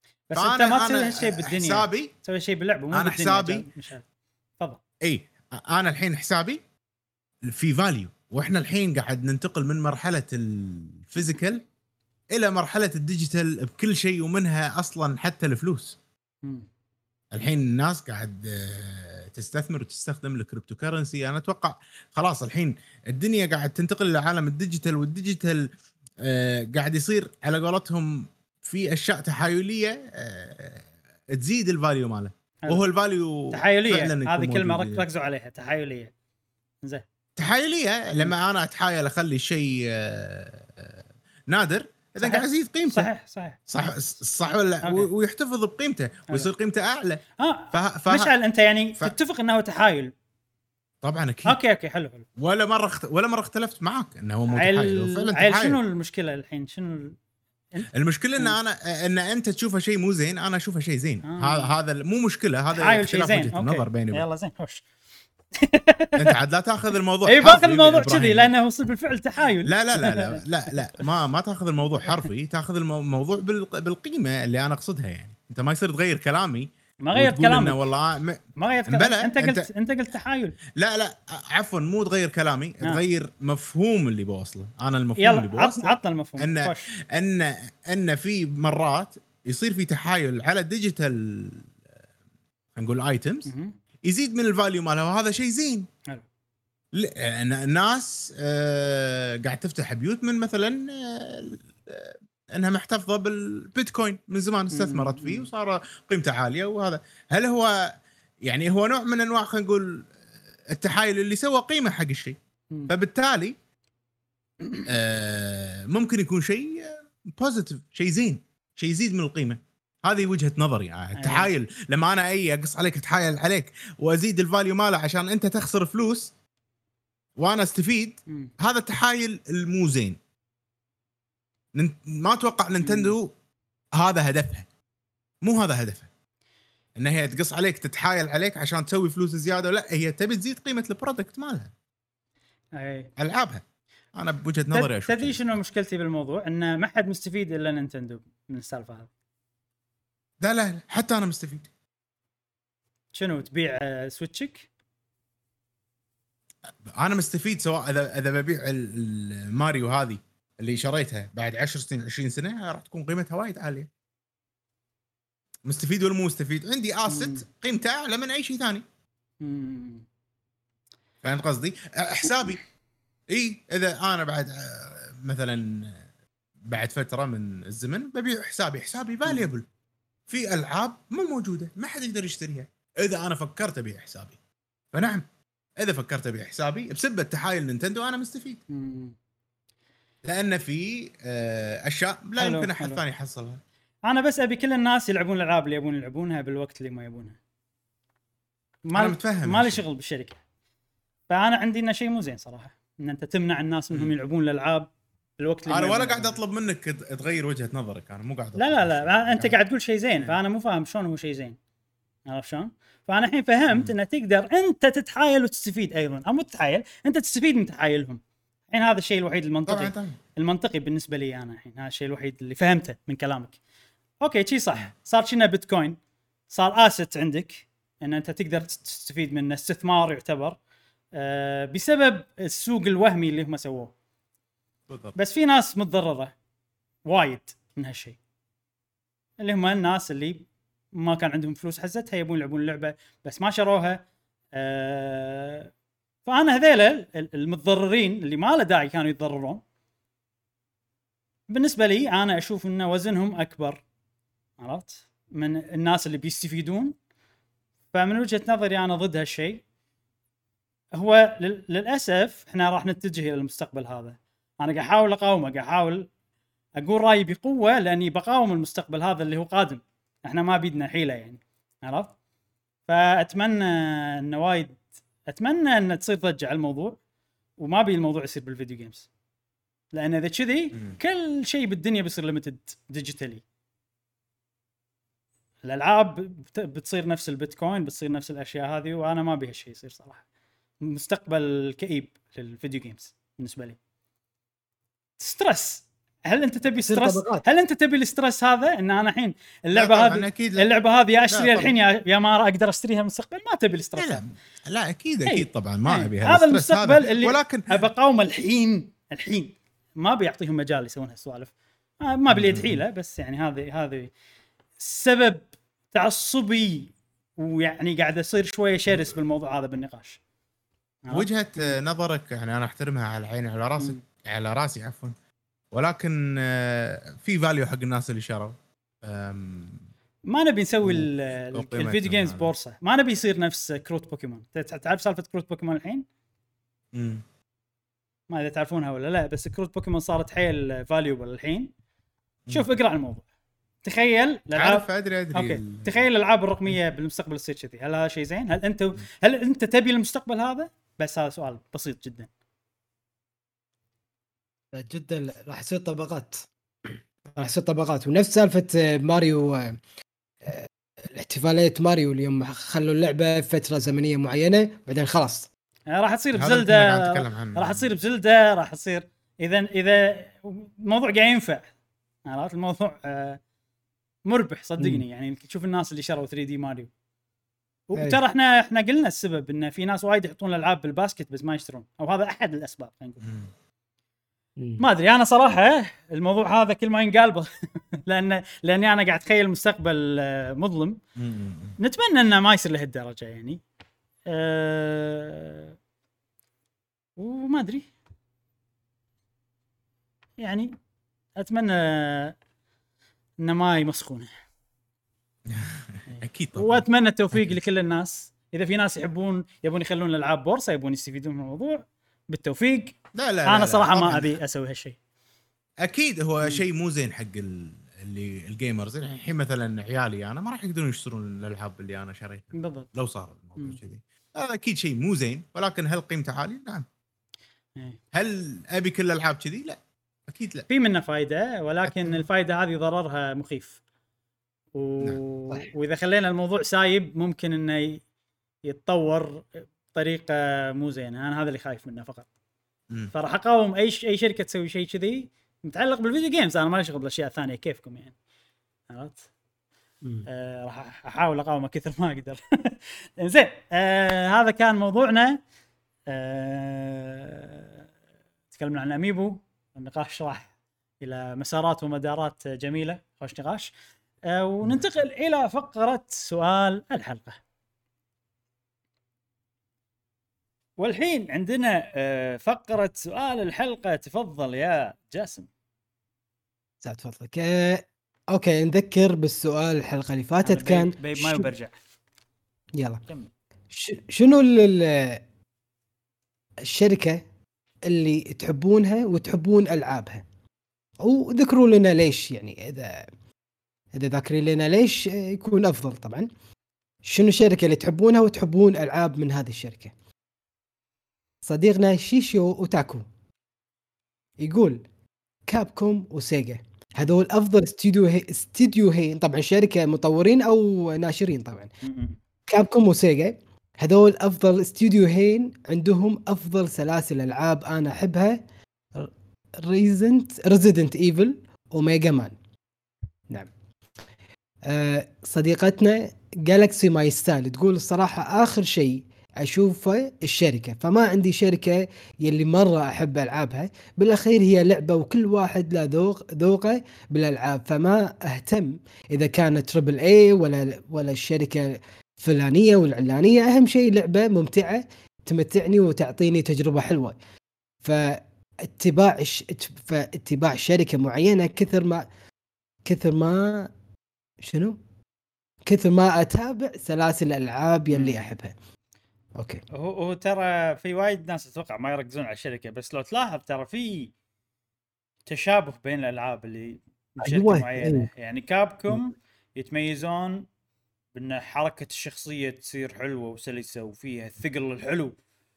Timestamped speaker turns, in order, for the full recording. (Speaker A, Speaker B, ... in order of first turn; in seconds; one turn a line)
Speaker A: 0.3-4.0
Speaker B: 0.4-2.1
Speaker B: 2.9-3.7
Speaker B: 5.0-6.6
Speaker B: 7.4-11.7
Speaker B: 12.3-16.0
Speaker B: 17.3-25.7
Speaker B: 26.2-35.1
Speaker A: 33.5-36.1
Speaker B: 37.4-43.1
Speaker A: 42.2-43.6
Speaker B: 43.7-48.3
Speaker A: 44.8-45.1
Speaker A: 47.4-50.1
Speaker B: 51.0-51.6
Speaker A: 51.5-52.2
Speaker B: 52.4-55.8
Speaker A: 54.5-57.2
Speaker A: 57.7-58.5
Speaker B: 57.9-64.2
Speaker A: 61.2-61.7
Speaker A: 62.7-64.8
Speaker A: 65.6-66.3
Speaker B: 66.2-68.5
Speaker A: 67.2-71.0
Speaker B: 69.6-79.7
Speaker A: 77.0-77.8
Speaker A: 78.6-80.5
Speaker B: 80.8-91.7
Speaker A: 85.2-86.9
Speaker B: 92.8-93.5
Speaker A: 93.5-93.8
Speaker B: 94.0-95.9
Speaker B: 96.9-107.9
Speaker A: 104.7-105.5
Speaker B: 108.4-110.1
Speaker B: 110.7-112.4
Speaker B: 112.9-113.5
Speaker B: 114.9-126.3
Speaker A: 121.2-121.5
Speaker B: 127.4-130.2
Speaker B: 131.8-133.3
Speaker A: 132.8-133.2
Speaker B: 134.0-134.7
Speaker B: 135.4-136.1
Speaker B: 137.0-141.7
Speaker A: 142.8-143.1
Speaker B: 143.2-143.6
Speaker B: 144.2-145.6
Speaker A: 144.7-149.1
Speaker B: 150.4-151.7
Speaker A: 153.2-154.7
Speaker B: 156.9-163.9
Speaker B: 165.7-168.8
Speaker A: 167.1-167.4
Speaker A: 169.4-170.1
Speaker B: 171.2-172.6
Speaker B: 173.3-176.0
Speaker B: 176.7-179.7
Speaker A: 179.3-179.5
Speaker B: 180.3-184.4
Speaker B: 184.9-185.2
Speaker B: 185.8-188.6
Speaker A: 188.7-189.2
Speaker B: 190.2-193.6
Speaker A: 192.4-193.0
Speaker A: 194.1-197.4
Speaker A: 198.9-200.4
Speaker B: 198.9-199.8
Speaker A: 201.3-206.4
Speaker B: 205.7-209.6
Speaker A: 208.6-211.6
Speaker A: 212.3-223.6
Speaker B: 213.7-213.9
Speaker B: 219.7-220.2
Speaker A: 224.2-226.0
Speaker A: 226.5-230.6
Speaker A: 231.2-233.9
Speaker B: 234.9-235.2
Speaker A: 235.2-236.3
Speaker A: 237.1-238.2
Speaker A: 239.4-244.0
Speaker A: 244.6-245.7
Speaker A: 246.3-249.6
Speaker A: 251.5-253.8
Speaker A: 254.6-257.0
Speaker A: 257.9-259.6
Speaker A: 260.9-266.1
Speaker A: 266.8-272.1
Speaker A: 272.9-277.0
Speaker A: 277.6-279.1
Speaker A: 279.9-283.4
Speaker A: 285.6-290.2
Speaker A: 290.8-293.8
Speaker A: 295.2-304.2
Speaker C: 296.8-297.5
Speaker B: 299.7-300.7
Speaker B: 301.3-301.8
Speaker B: 304.0-307.8
Speaker A: 305.3-314.1
Speaker B: 312.3-312.8
Speaker A: 314.8-320.2
Speaker A: 321.1-321.8
Speaker B: 321.1-325.1
Speaker B: 325.7-329.9
Speaker A: 330.3-336.1
Speaker B: 330.8-332.5
Speaker B: 336.9-337.2
Speaker A: 338.3-341.7
Speaker B: 342.5-342.8
Speaker A: 342.5-343.2
Speaker A: 343.8-352.3
Speaker B: 344.6-346.1
Speaker C: 354.7-359.8
Speaker C: 360.4-365.5
Speaker A: 365.9-371.7
Speaker B: 366.4-367.9
Speaker A: 372.3-373.4
Speaker A: 374.3-376.9
Speaker C: 374.8-375.0
Speaker A: 377.9-383.2
Speaker C: 377.9-378.2
Speaker B: 383.2-383.5
Speaker C: 384.6-384.8
Speaker A: 384.8-391.0
Speaker B: 391.2-391.8
Speaker A: 391.8-393.6
Speaker A: 394.3-395.7
Speaker A: 397.2-397.9
Speaker A: 400.4-400.8
Speaker A: 401.4-402.4
Speaker A: 403.4-404.3
Speaker B: 405.5-407.5
Speaker A: 406.1-415.0
Speaker B: 413.1-414.4
Speaker B: 415.8-426.9
Speaker A: 422.6-422.9
Speaker B: 428.1-430.7
Speaker A: 430.7-433.8
Speaker B: 431.9-432.2
Speaker A: 434.8-438.0
Speaker A: 438.6-442.3
Speaker A: 443.1-448.1
Speaker A: 448.9-449.2
Speaker A: 450.3-455.4
Speaker A: 456.1-457.8
Speaker A: 458.5-463.7
Speaker A: 464.3-467.4
Speaker A: 470.8-475.5
Speaker C: 476.8-481.5
Speaker A: 480.4-481.7
Speaker C: 482.8-483.0
Speaker C: 483.7-485.2
Speaker C: 486.6-487.2
Speaker C: 487.9-490.2
Speaker C: 491.0-493.1
Speaker C: 493.9-496.3
Speaker C: 497.0-499.9
Speaker C: 501.4-503.1
Speaker C: 504.4-504.9
Speaker C: 505.5-511.7
Speaker A: 511.8-512.2
Speaker C: 512.5-518.4
Speaker C: 518.9-522.4
Speaker C: 524.7-547.2
Speaker C: 547.8-552.1
Speaker C: 552.9-553.7
Speaker C: 554.4-554.8
Speaker C: 555.6-558.5
Speaker A: 557.9-558.3
Speaker C: 559.4-559.6
Speaker A: 559.7-564.1
Speaker A: 565.3-570.5
Speaker C: 567.2-568.1
Speaker A: 571.1-575.2